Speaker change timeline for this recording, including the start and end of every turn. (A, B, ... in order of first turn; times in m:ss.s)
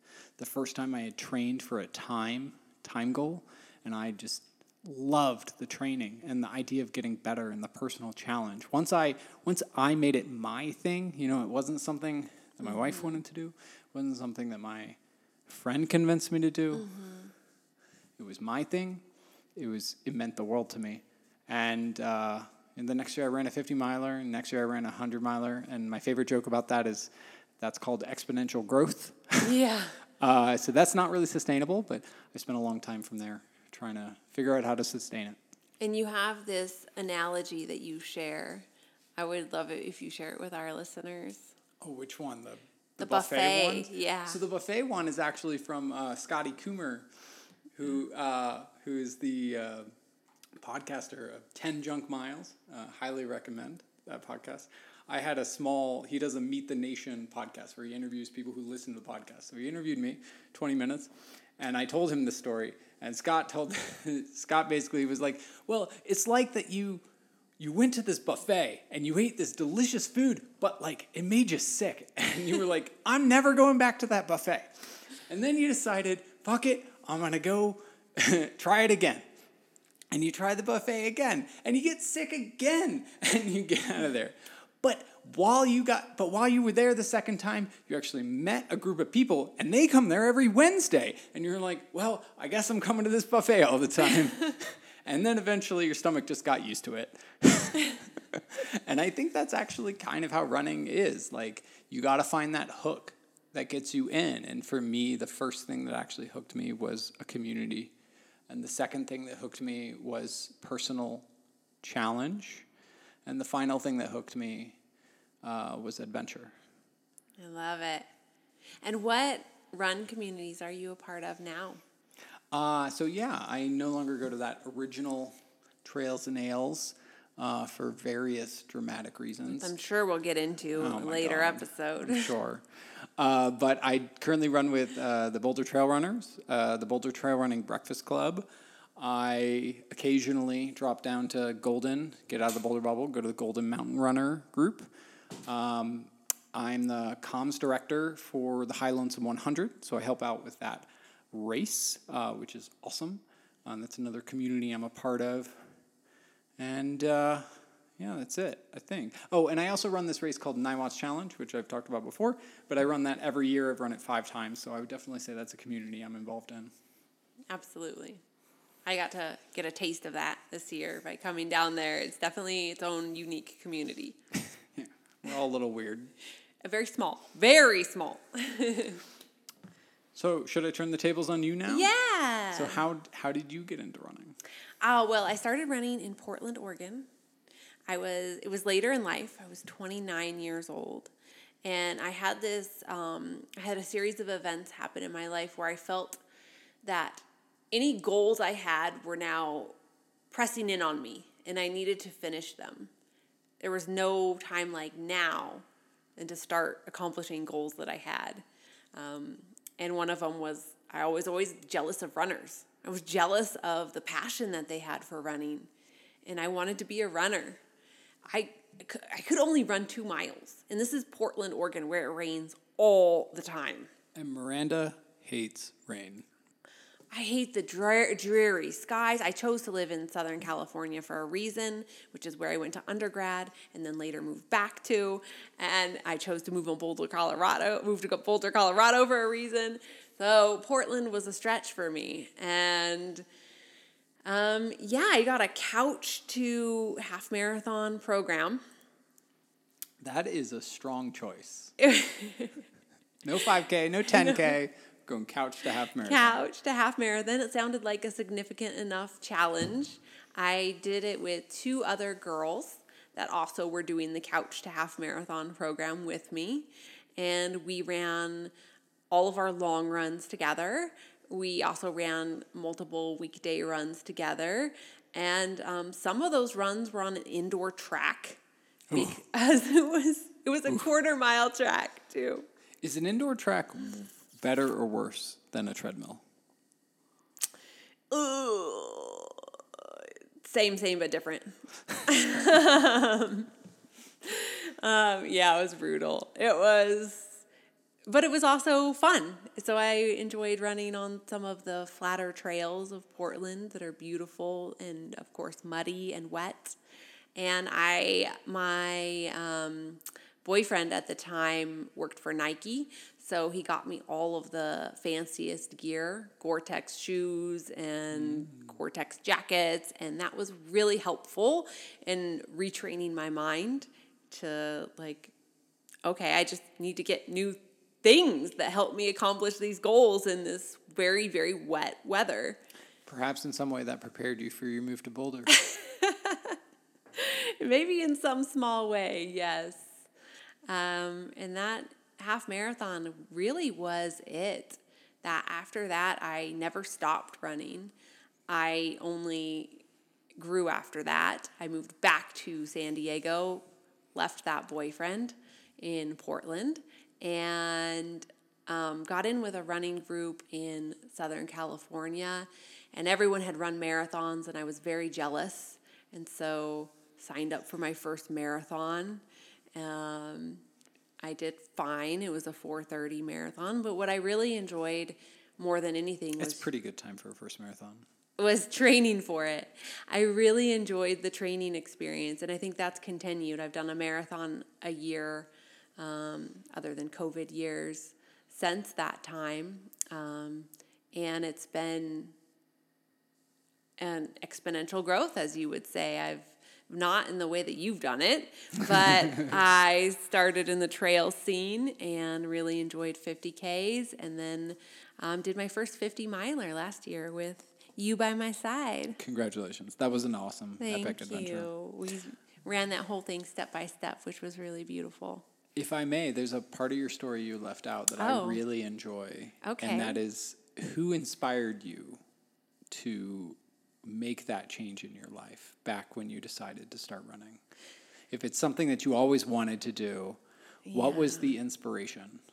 0:00.4-0:16.9 A
0:12.9-0:13.2 B
0:16.8-0:17.3 B
0:18.2-0:19.0 A
0:19.6-0:29.5 A
0:29.4-0:30.0 B
0:30.2-0:35.4 A
0:35.8-0:41.5 B
0:41.8-0:47.1 A
0:43.0-0:44.4 B
0:47.7-0:49.9 A
0:50.6-1:07.0 A
1:07.6-1:19.2 A
1:20.1-1:47.9 A
1:48.5-1:51.3 A
1:51.8-1:52.7 A
1:53.3-1:54.8 A
1:55.4-1:56.5 A
1:57.4-1:58.1 B
1:58.8-2:01.8 B
2:02.5-2:09.7 A
2:09.5-2:12.3 B
2:10.8-2:24.9 A
2:25.5-2:35.7 A
2:36.6-2:37.5 A
2:38.0-2:46.7 A
2:47.5-2:48.2 B
2:48.8-2:54.2 B
2:54.7-2:56.1 A
2:56.6-2:59.0 B
3:00.2-3:01.9 A
3:01.7-3:02.8 B
3:02.5-3:04.4 A
3:04.8-3:07.1 B
3:07.9-3:11.1 B
3:11.6-3:16.2 B
3:16.8-3:19.8 B
3:20.3-3:22.9 B
3:23.6-3:25.7 B
3:26.2-3:35.7 B
3:36.3-3:37.6 B
3:38.3-3:43.9 B
3:44.2-3:46.3 A
3:47.1-4:03.3 B
4:04.2-4:08.6 B
4:10.0-4:11.7 A
4:11.8-4:12.6 B
4:13.2-4:16.5 A
4:14.2-4:14.5 B
4:16.0-4:28.5 B
4:29.1-4:38.4 B
4:38.9-4:39.2 A
4:38.9-4:42.5 B
4:42.8-4:46.2 A
4:48.1-4:53.5 B
4:54.2-4:57.4 B
4:58.1-5:06.8 B
5:07.4-5:25.3 B
5:18.1-5:18.6 A
5:26.0-5:32.6 B
5:33.0-5:35.5 A
5:35.5-5:36.6 B
5:37.1-5:40.0 B
5:40.7-5:47.9 B
5:48.5-5:49.8 B
5:50.4-6:09.2 B
6:09.8-6:10.6 B
6:11.2-6:16.7 B
6:16.4-6:18.1 A
6:18.4-6:32.4 B
6:34.0-6:49.2 B
6:38.8-6:39.5 A
6:49.2-6:51.7 A
6:50.8-6:55.4 B
6:55.8-7:02.2 A
6:58.2-6:58.6 B
6:59.6-7:00.2 B
7:02.9-7:07.6 A
7:08.3-7:12.4 A
7:10.9-7:11.5 B